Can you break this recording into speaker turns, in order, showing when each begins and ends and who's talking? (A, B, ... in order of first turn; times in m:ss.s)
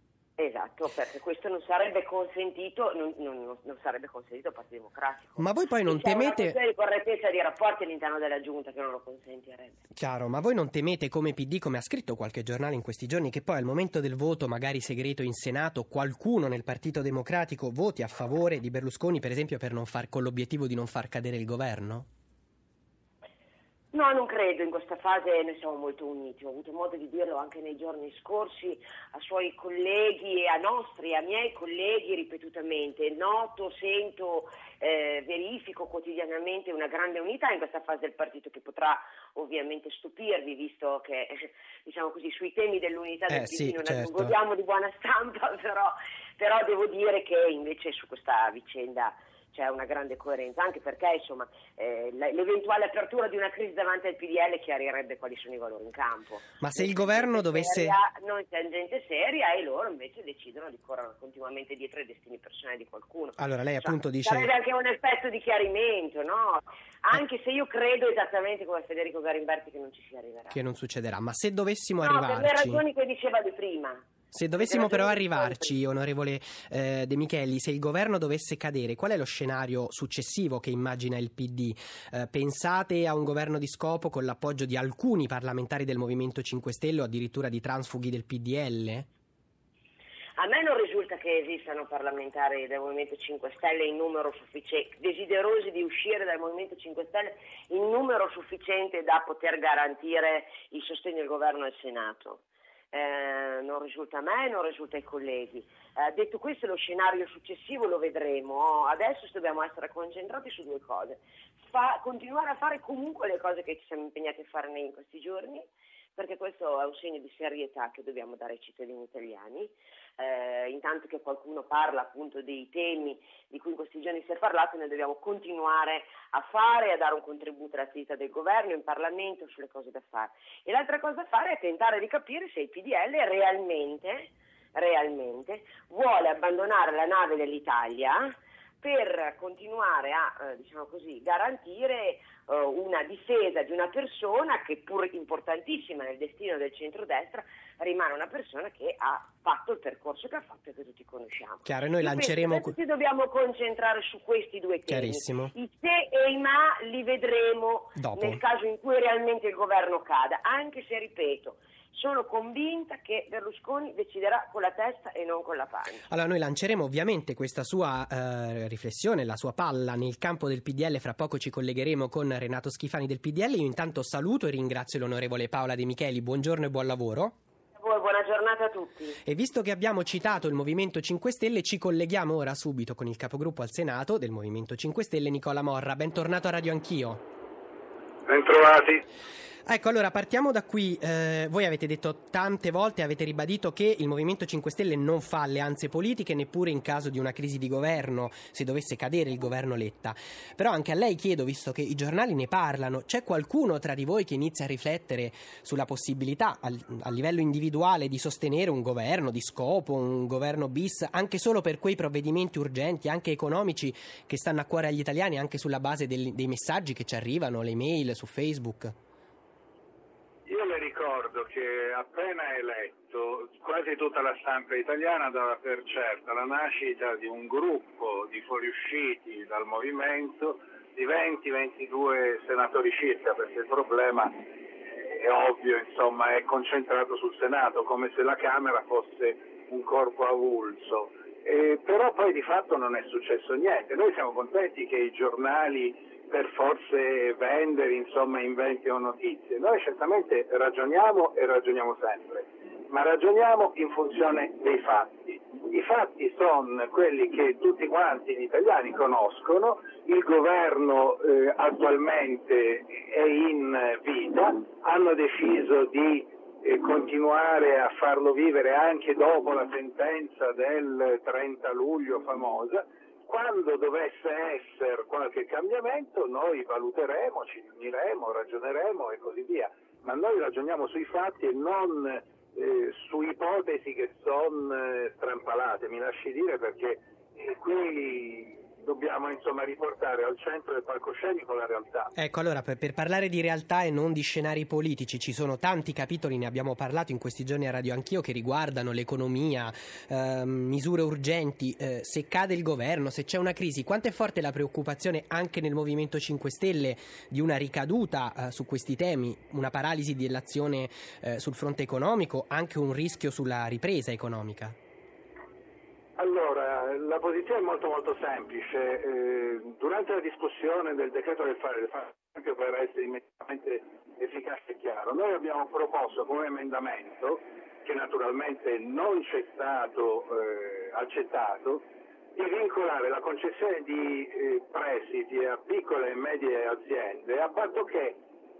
0:00.4-0:09.8 A
0:05.4-0:06.6 B
0:09.9-0:22.1 B
0:23.9-1:10.6 A
0:43.3-0:44.3 B
0:56.6-0:58.0 B
1:03.4-1:04.5 B
1:10.5-1:12.8 B
1:12.0-1:15.7 A
1:14.3-1:29.1 B
1:30.4-2:46.1 A
2:31.6-2:32.8 B
2:34.9-2:35.5 B
2:38.0-2:38.4 B
2:46.1-2:57.4 B
2:57.7-2:59.2 A
2:59.2-3:07.2 B
3:08.2-3:09.0 C
3:09.6-3:38.9 B
3:40.4-3:54.4 C
3:55.0-4:52.1 C
4:52.1-5:14.8 B
5:16.2-5:31.8 C
5:32.3-5:38.2 C